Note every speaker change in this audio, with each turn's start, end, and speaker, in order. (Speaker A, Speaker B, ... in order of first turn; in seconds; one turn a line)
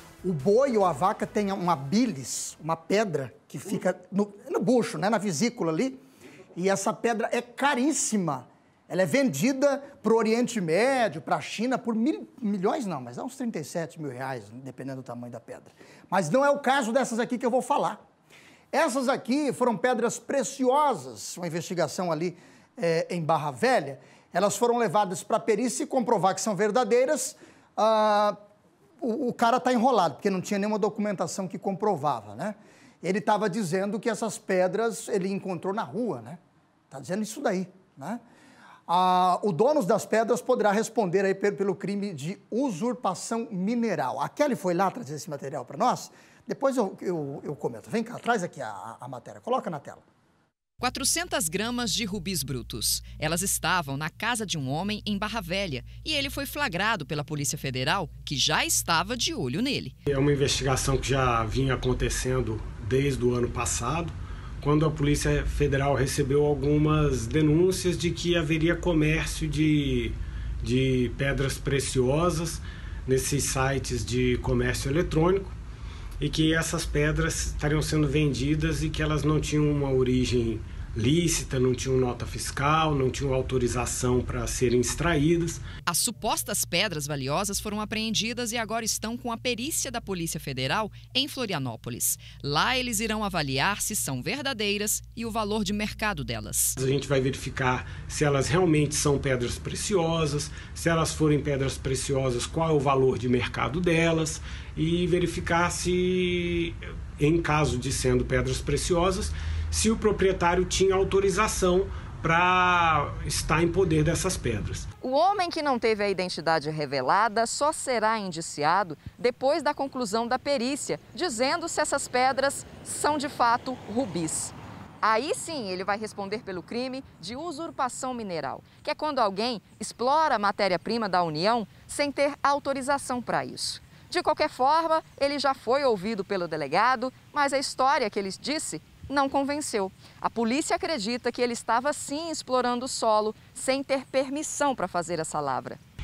Speaker A: 0.2-6.0
Speaker A: 6.5-18.0
Speaker A: 18.7-28.4
Speaker A: 29.0-36.4
Speaker A: 36.9-38.2
Speaker A: 38.9-50.0
Speaker B: 50.8-60.0
Speaker C: 60.1-75.6
Speaker C: 76.2-85.6
Speaker B: 85.9-96.8
Speaker C: 96.8-114.9
Speaker B: 115.0-145.8